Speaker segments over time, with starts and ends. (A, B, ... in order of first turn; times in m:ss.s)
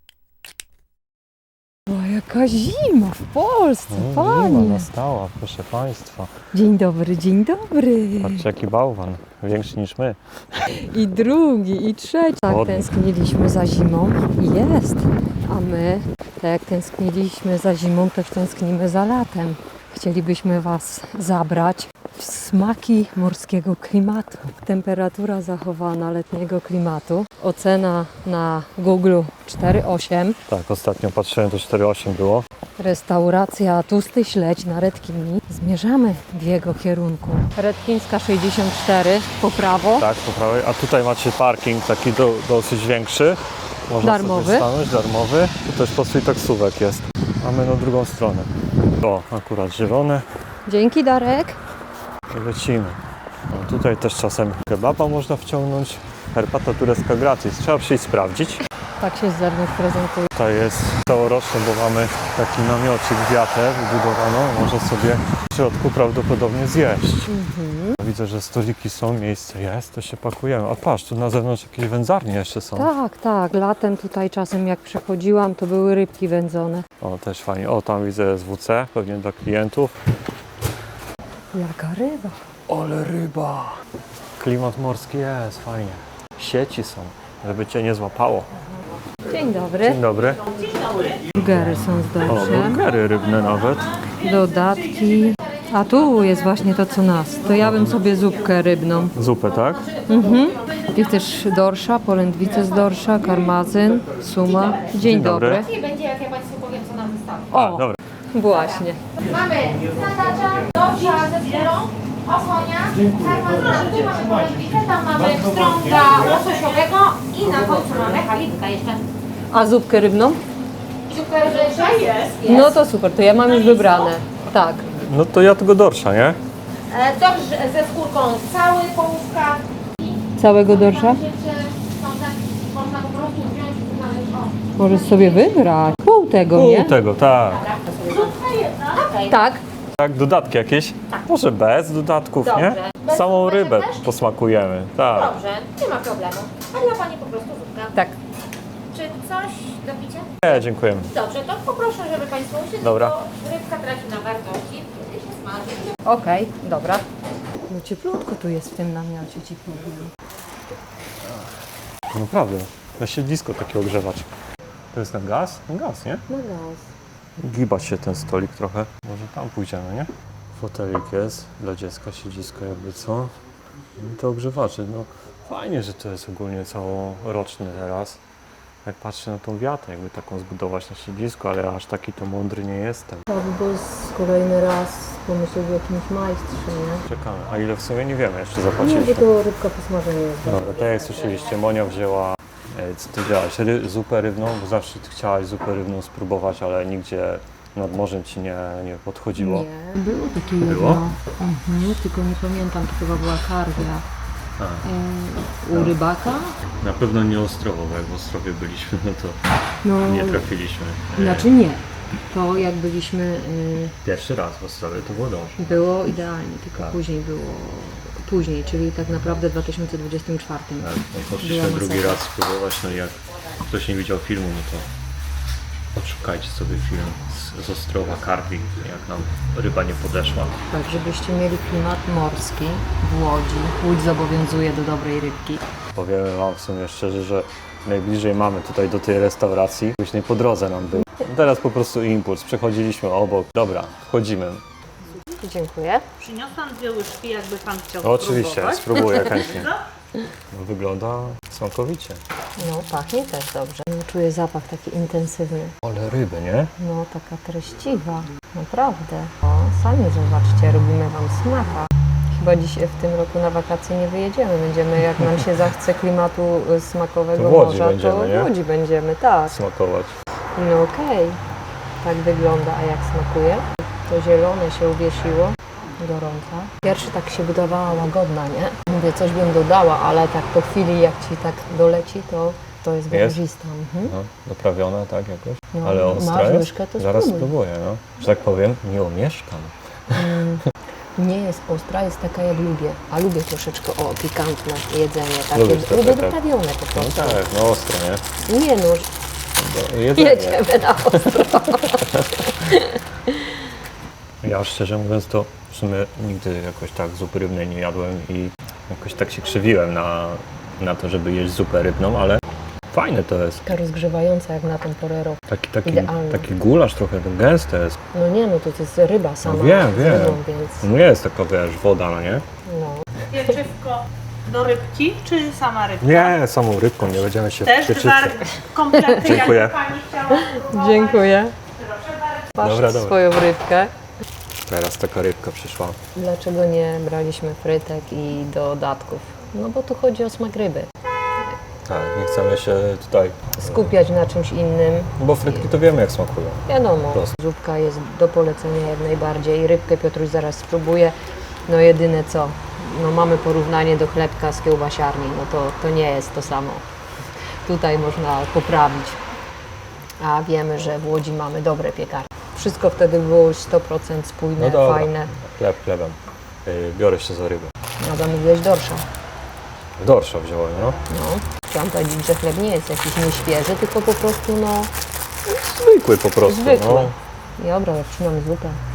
0:01.9-0:04.9 A
0:03.9-0:06.3 B
0:06.5-0:08.4 A
0:08.2-0:10.6 B
0:10.7-0:30.4 A
0:12.5-0:12.9 B
0:30.5-0:32.4 B
0:32.8-0:40.1 A
0:40.0-0:50.2 B
0:44.0-0:44.7 A
0:50.7-0:51.6 A
0:52.3-0:53.0 B
0:53.5-0:58.6 B
0:59.0-1:00.3 A
1:00.4-1:07.3 B
1:07.3-1:08.0 A
1:08.0-1:12.9 B
1:12.8-1:16.9 A
1:17.0-1:19.9 B
1:21.5-1:22.4 A
1:22.7-1:23.8 B
1:24.4-1:28.5 B
1:29.3-1:30.0 A
1:29.8-1:30.4 B
1:31.3-1:32.8 A
1:32.2-1:34.0 B
1:34.2-1:39.2 A
1:37.6-1:38.0 B
1:39.2-1:39.9 B
1:40.1-1:45.8 A
1:44.6-1:47.5 C
1:45.0-1:45.7 B
1:47.5-1:49.0 A
1:47.5-1:48.0 B
1:49.2-1:59.0 C
1:59.5-2:00.4 A
2:01.1-2:02.7 C
2:02.4-2:04.9 A
2:05.0-2:06.4 B
2:06.9-2:15.6 C
2:10.4-2:11.2 A
2:14.8-2:17.0 A
2:16.5-2:17.7 B
2:17.5-2:19.3 C
2:19.0-2:19.6 A
2:20.0-2:25.4 B
2:22.6-2:24.0 C
2:25.1-2:28.0 C
2:28.9-2:30.4 C
2:30.4-2:31.1 B
2:31.1-2:35.9 C
2:32.8-2:33.2 B
2:36.0-2:37.1 A
2:37.7-2:40.1 A
2:41.2-2:41.5 B
2:42.1-2:44.3 B
2:44.9-2:46.2 B
2:46.3-2:46.9 A
2:47.4-2:53.3 B
2:54.0-2:58.2 B
2:58.8-3:03.3 B
3:03.3-3:07.0 A
3:07.1-3:09.3 B
3:08.8-3:10.7 A
3:10.4-3:19.7 B
3:19.4-3:24.0 A
3:20.6-3:21.1 B
3:24.6-3:24.9 B
3:24.8-3:26.6 A
3:25.7-3:26.0 B
3:26.8-3:29.4 B
3:29.8-3:30.5 A
3:30.0-3:31.5 B
3:31.1-3:34.0 A
3:34.0-3:35.8 B
3:35.6-3:42.2 A
3:40.8-3:44.9 B
3:46.0-3:50.6 B
3:50.7-3:55.6 A
3:56.0-4:04.6 B
4:05.4-4:06.0 A
4:06.2-4:09.7 D
4:08.0-4:09.7 B
4:10.5-4:12.2 B
4:12.6-4:15.8 A
4:15.8-4:16.7 B
4:16.8-4:29.6 A
4:27.4-4:28.5 B
4:29.5-4:30.2 B
4:30.6-4:31.4 A
4:32.0-4:44.2 A
4:43.1-4:43.4 B
4:44.1-4:50.2 B
4:45.7-4:47.5 A
4:50.1-4:50.6 A
4:51.2-4:57.4 A
4:55.5-4:56.4 B
4:56.9-4:58.2 B
4:58.4-4:59.1 A
4:59.6-5:01.6 B
5:00.1-5:03.4 A
5:04.4-5:13.7 B
5:13.6-5:16.5 A
5:15.5-5:18.0 B
5:18.1-5:20.9 A
5:19.4-5:22.4 B
5:22.7-5:23.4 A
5:23.3-5:26.3 D
5:26.0-5:28.4 B
5:27.6-5:31.2 D
5:28.9-5:29.3 A
5:29.2-5:29.8 B
5:30.3-5:31.5 A
5:31.9-5:32.2 D
5:32.6-5:33.9 A
5:32.6-5:33.2 B
5:34.7-5:36.0 B
5:36.2-5:40.9 A
5:41.9-5:44.0 B
5:43.5-5:45.8 A
5:45.2-5:47.4 B
5:46.7-5:51.1 A
5:51.7-5:56.8 A
5:57.6-5:59.2 A
6:00.2-6:05.3 A
6:04.6-6:07.7 B
6:08.0-6:09.0 A
6:10.0-6:11.0 B
6:11.1-6:14.9 A
6:15.5-6:17.1 B
6:16.4-6:18.8 A